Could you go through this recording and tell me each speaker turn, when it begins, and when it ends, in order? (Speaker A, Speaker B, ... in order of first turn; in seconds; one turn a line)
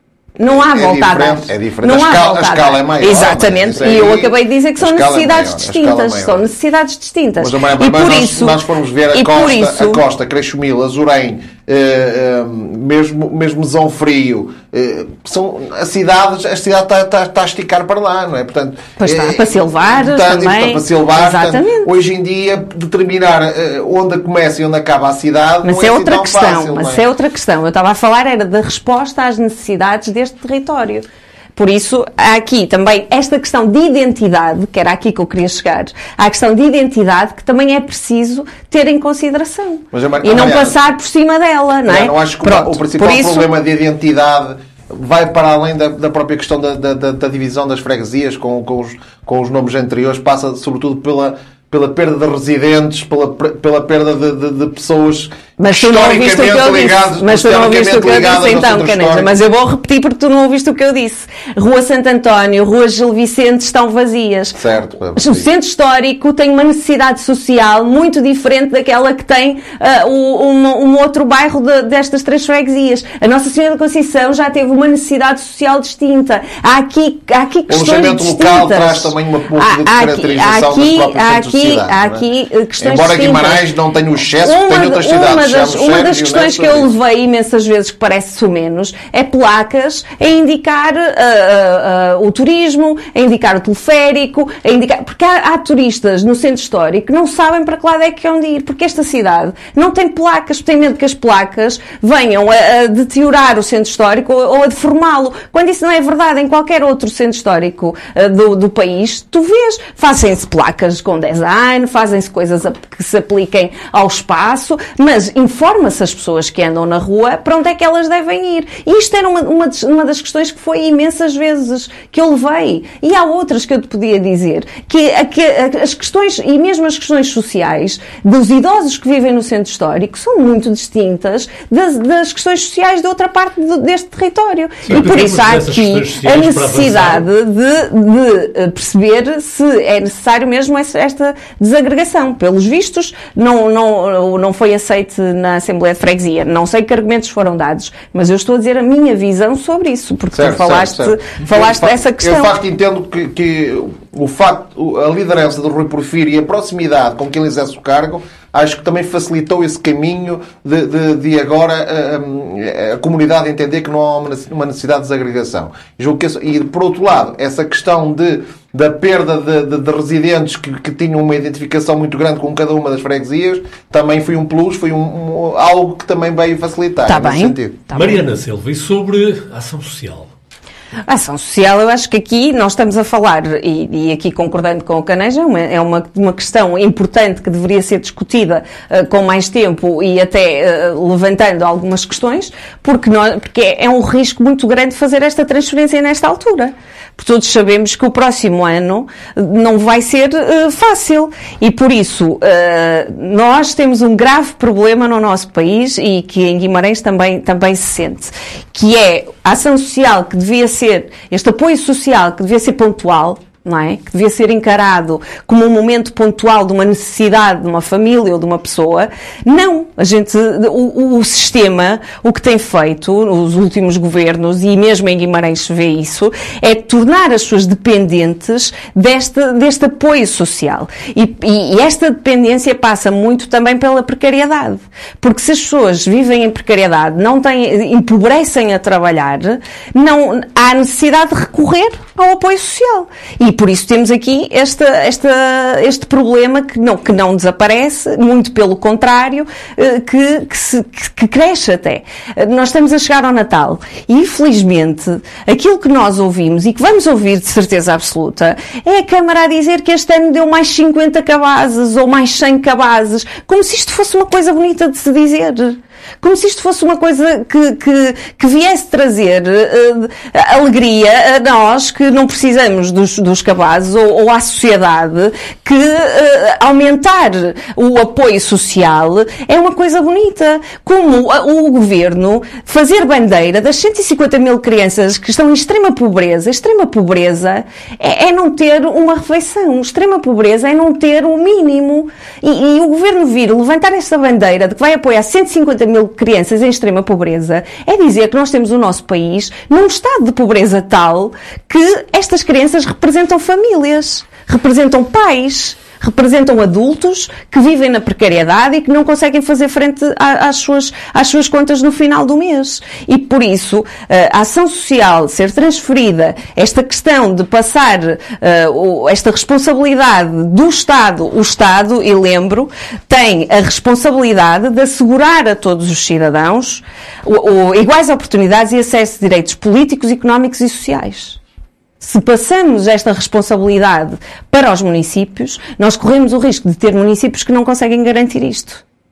Speaker A: 0.4-8.6
Speaker B: 0.5-6.5
Speaker B: 7.4-27.0
Speaker A: 9.1-10.0
Speaker A: 19.0-21.9
Speaker A: 25.6-31.0
Speaker A: 31.5-43.5
Speaker B: 39.9-40.8
Speaker B: 41.9-59.3
Speaker A: 55.6-64.6
Speaker B: 64.6-65.5
Speaker A: 65.1-83.6
Speaker B: 77.7-82.2
Speaker B: 82.8-86.9
Speaker A: 84.4-152.5
Speaker C: 134.8-137.2
Speaker B: 150.3-177.9
Speaker A: 177.1-178.2
Speaker C: 177.9-180.3
Speaker A: 181.1-331.4
Speaker A: 332.0-338.8